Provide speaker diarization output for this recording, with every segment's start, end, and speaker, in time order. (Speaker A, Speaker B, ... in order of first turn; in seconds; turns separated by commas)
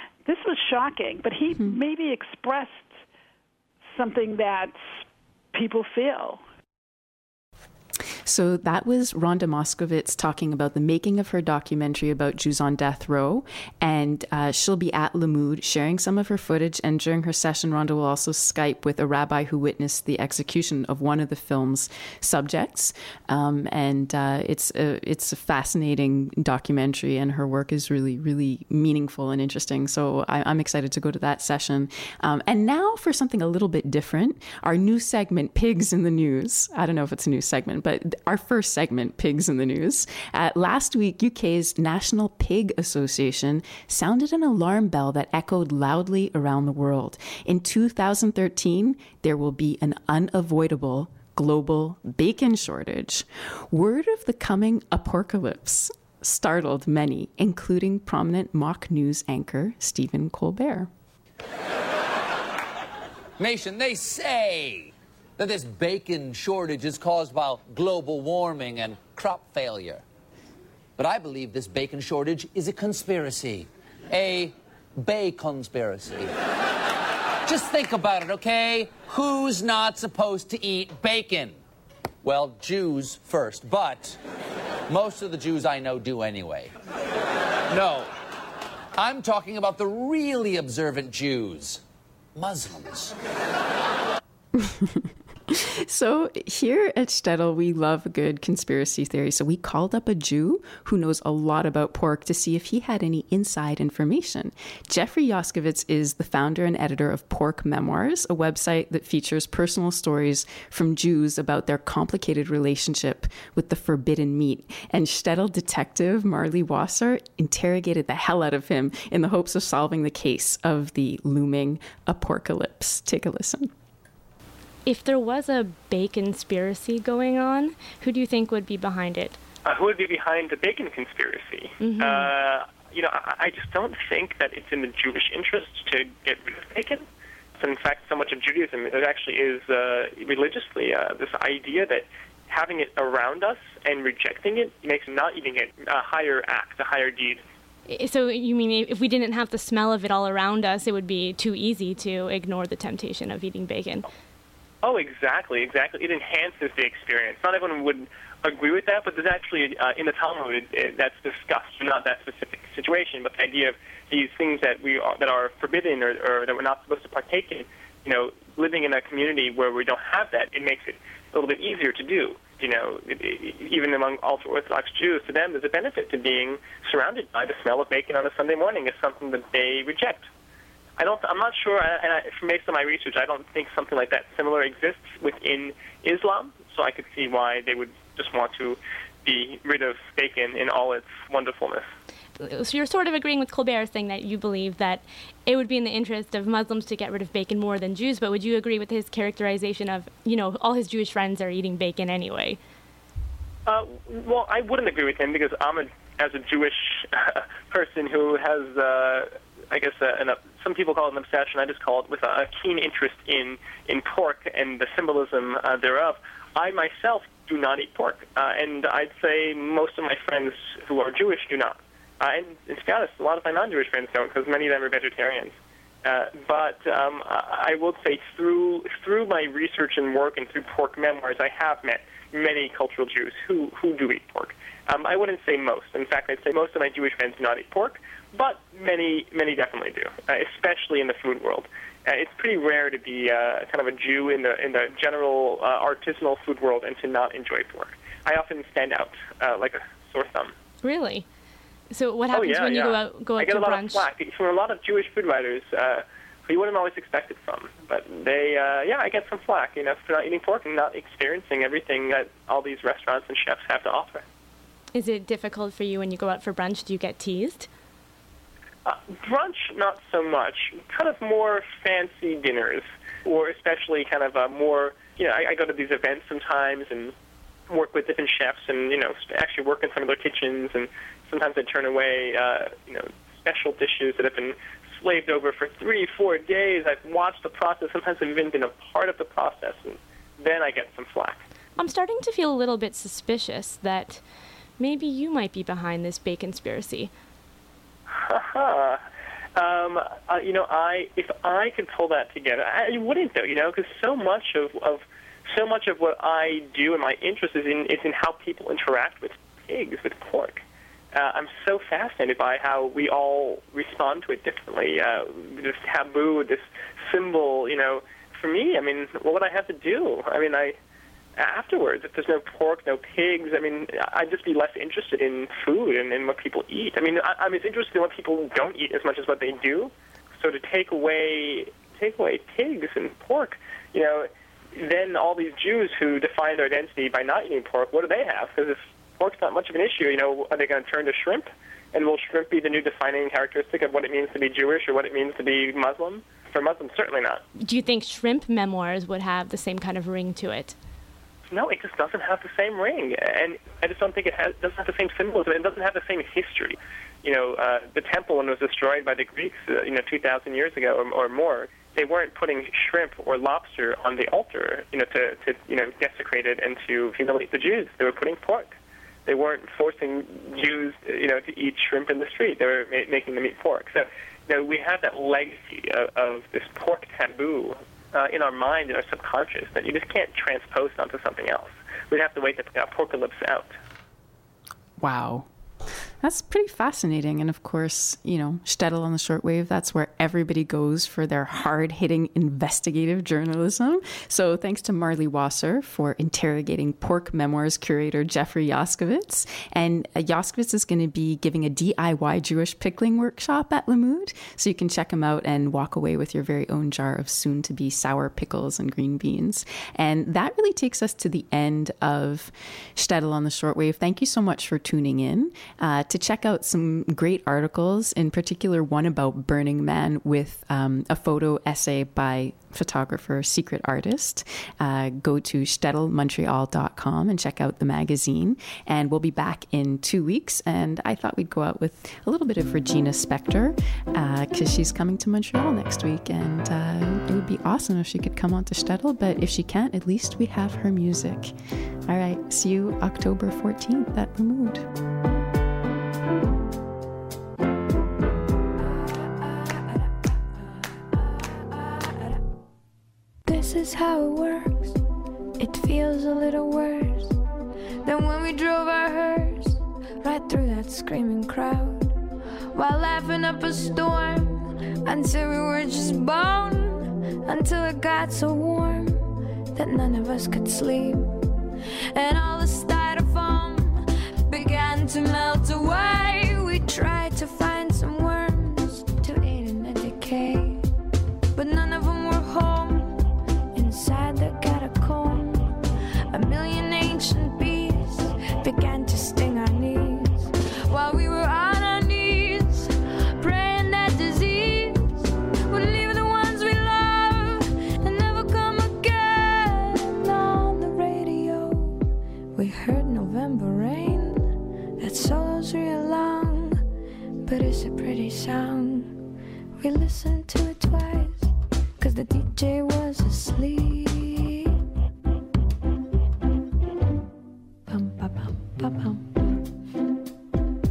Speaker A: 0.2-3.0, Speaker A: 3.9-4.8, Speaker A: 5.5-6.4, Speaker B: 8.2-60.9, Speaker C: 63.4-70.0, Speaker C: 71.0-76.3, Speaker C: 77.5-81.6, Speaker C: 82.2-84.2, Speaker C: 84.9-86.7, Speaker C: 87.7-88.1, Speaker C: 89.0-91.8, Speaker C: 92.3-93.1, Speaker B: 94.6-123.7, Speaker D: 124.8-129.4, Speaker E: 129.7-137.0, Speaker D: 131.8-132.3, Speaker E: 137.6-147.4, Speaker D: 147.9-154.1, Speaker E: 154.8-180.3, Speaker E: 181.0-191.9, Speaker D: 192.4-202.6, Speaker E: 203.7-250.5, Speaker D: 250.8-251.2, Speaker D: 251.9-254.1, Speaker E: 252.3-264.2, Speaker D: 264.9-267.7, Speaker E: 268.9-277.1, Speaker E: 277.7-291.4, Speaker D: 291.8-294.2, Speaker D: 294.8-297.1, Speaker E: 298.1-299.0, Speaker E: 299.6-310.6, Speaker E: 311.1-320.8, Speaker E: 321.4-347.4, Speaker D: 347.6-350.8, Speaker E: 351.5-383.7, Speaker B: 385.0-385.4, Speaker B: 386.2-441.5, Speaker B: 442.1-444.9, Speaker F: 453.4-455.0, Speaker F: 455.6-457.4, Speaker F: 458.0-462.2, Speaker F: 462.7-471.4, Speaker F: 472.1-480.8, Speaker F: 481.5-485.7, Speaker F: 486.3-502.0, Speaker F: 502.5-506.8, Speaker F: 507.4-509.1, Speaker F: 509.8-514.8, Speaker F: 517.9-519.3